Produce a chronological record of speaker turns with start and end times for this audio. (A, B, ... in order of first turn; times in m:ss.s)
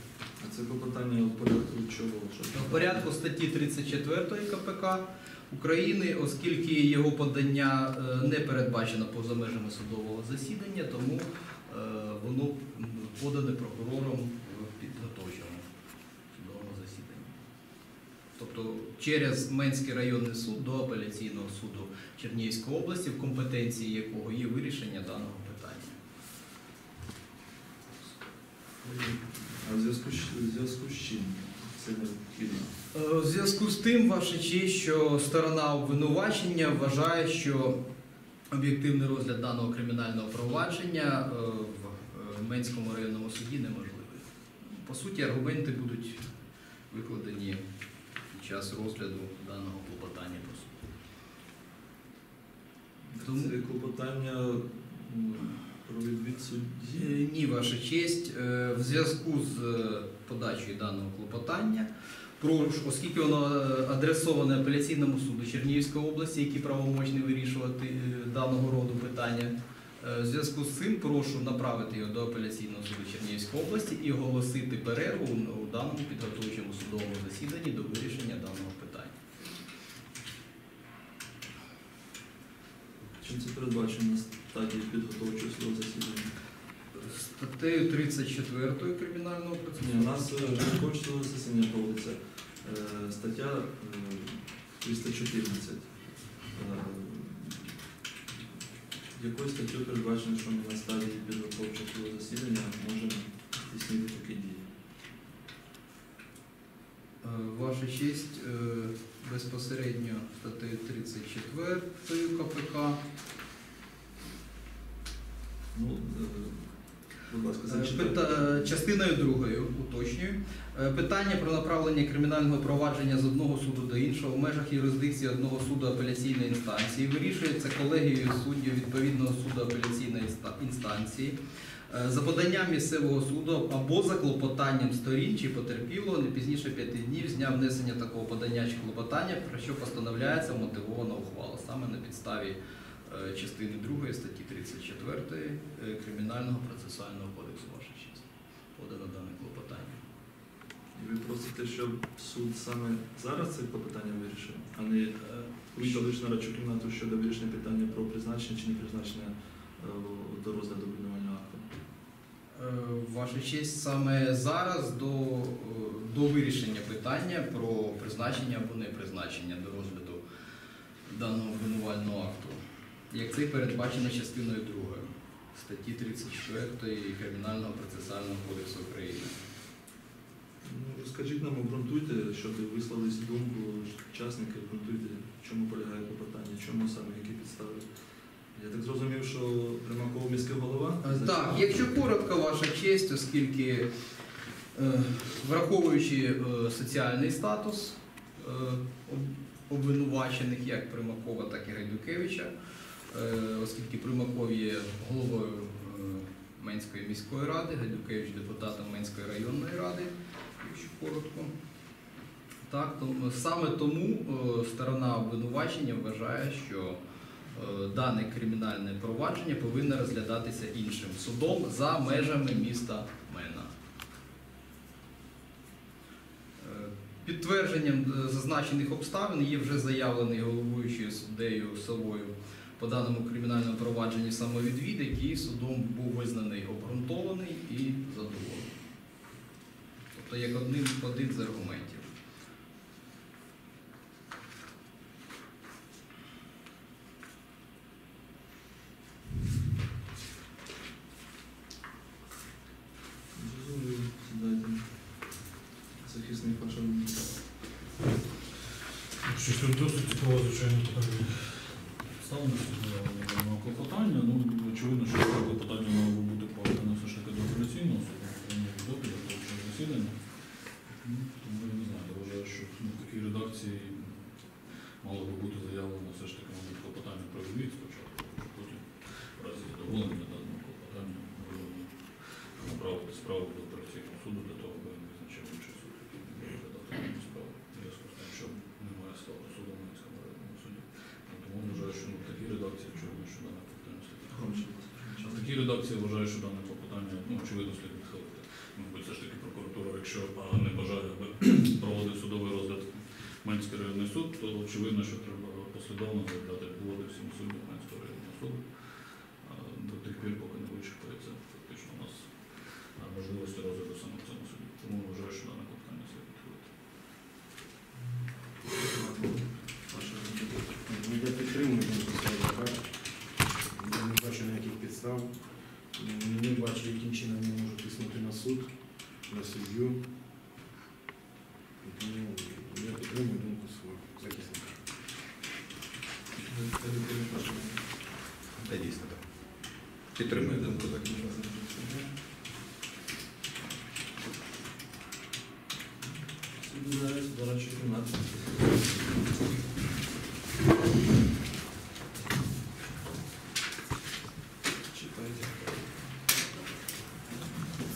0:00.4-0:03.1 A
0:02.5-0:15.6 B
0:16.3-0:17.3 B
0:18.4-0:26.0 B
0:28.8-0:32.7 A
0:32.9-0:37.8 B
0:38.5-0:46.3 B
0:46.9-0:47.6 B
0:48.3-0:50.8 B
0:53.1-0:57.1 A
0:53.2-0:53.5 B
0:56.9-1:19.2 B
1:23.2-1:26.3 A
1:26.9-1:30.7 B
1:29.8-1:35.9 A
1:36.5-1:37.8 A
1:39.1-1:44.7 A
1:47.2-1:53.0 B
1:55.7-1:58.8 A
1:57.7-2:11.4 B
2:11.9-2:30.0 B
2:31.0-2:41.7 A
2:35.4-2:36.0 B
2:42.5-2:50.2 B
2:51.1-2:52.6 B
2:53.1-2:59.4 B
3:00.6-3:07.8 A
3:08.5-3:11.7 A
3:11.0-3:13.9 B
3:14.7-3:22.5 B
3:23.1-3:31.5 B
3:32.7-3:37.0 B
3:37.5-3:43.7 B
3:46.6-3:58.7 B
4:00.1-4:02.1 B
4:13.3-4:15.4 A
4:16.0-4:17.2 A
4:19.2-5:16.7 C
4:54.3-4:55.6 A
5:18.6-5:20.7 A
5:20.8-5:22.9 D
5:23.7-5:25.4 D
5:25.9-5:30.0 D
5:31.8-5:34.7 D
5:34.2-5:34.5 E
5:36.4-5:37.9 A
5:38.6-5:39.2 E
5:40.1-5:41.2 E
5:40.2-5:42.2 A
5:46.1-5:48.8 A
5:54.9-5:55.8 A